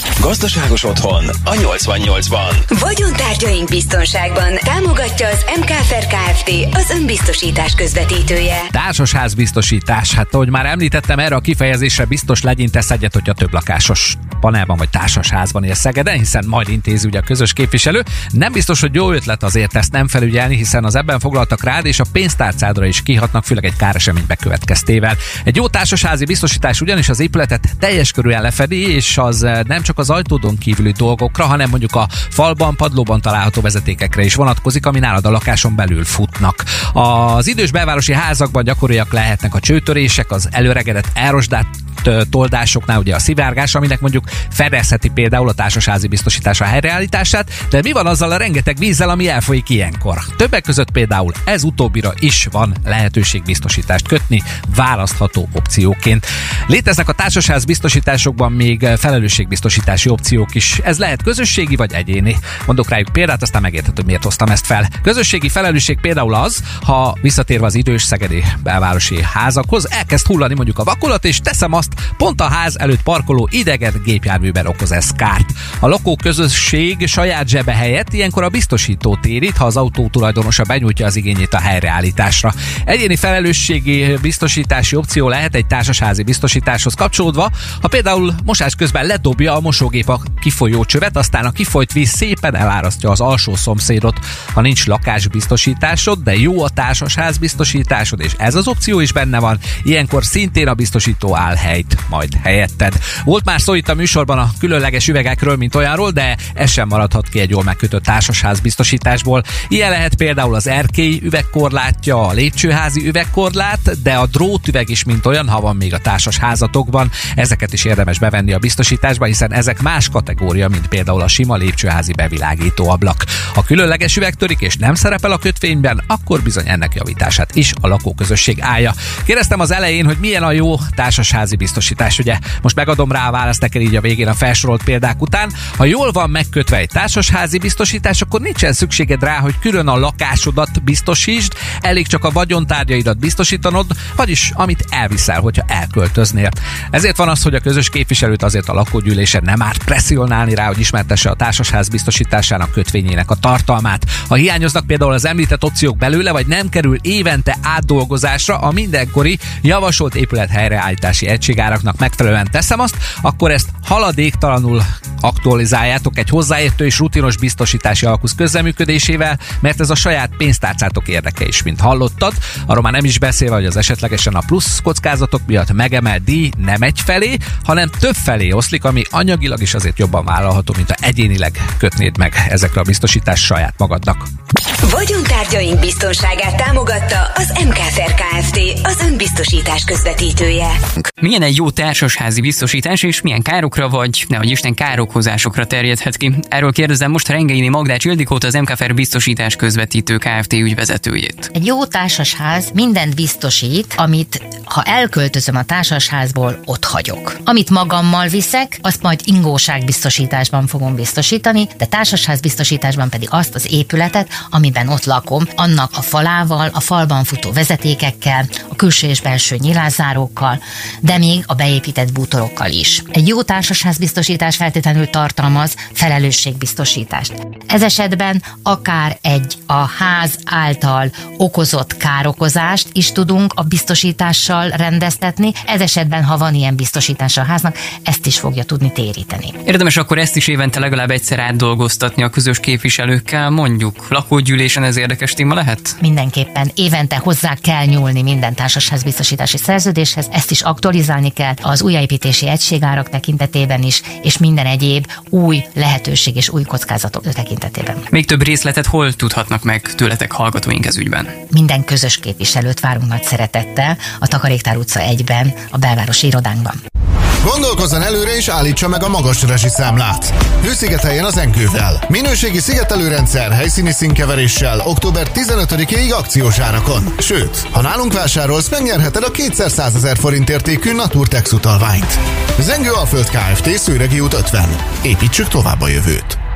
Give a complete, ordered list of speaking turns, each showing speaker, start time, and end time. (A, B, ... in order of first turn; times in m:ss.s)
0:00.2-0:02.6 A
0:02.7-0:08.7 B
0:08.7-3:04.3 C
3:04.8-3:10.8 B
3:11.2-3:21.5 D
3:21.6-3:59.6 E
3:59.7-4:06.0 D
4:06.0-4:18.0 E
4:18.1-4:21.3 D
4:21.5-4:26.8 E
4:27.4-4:46.4 F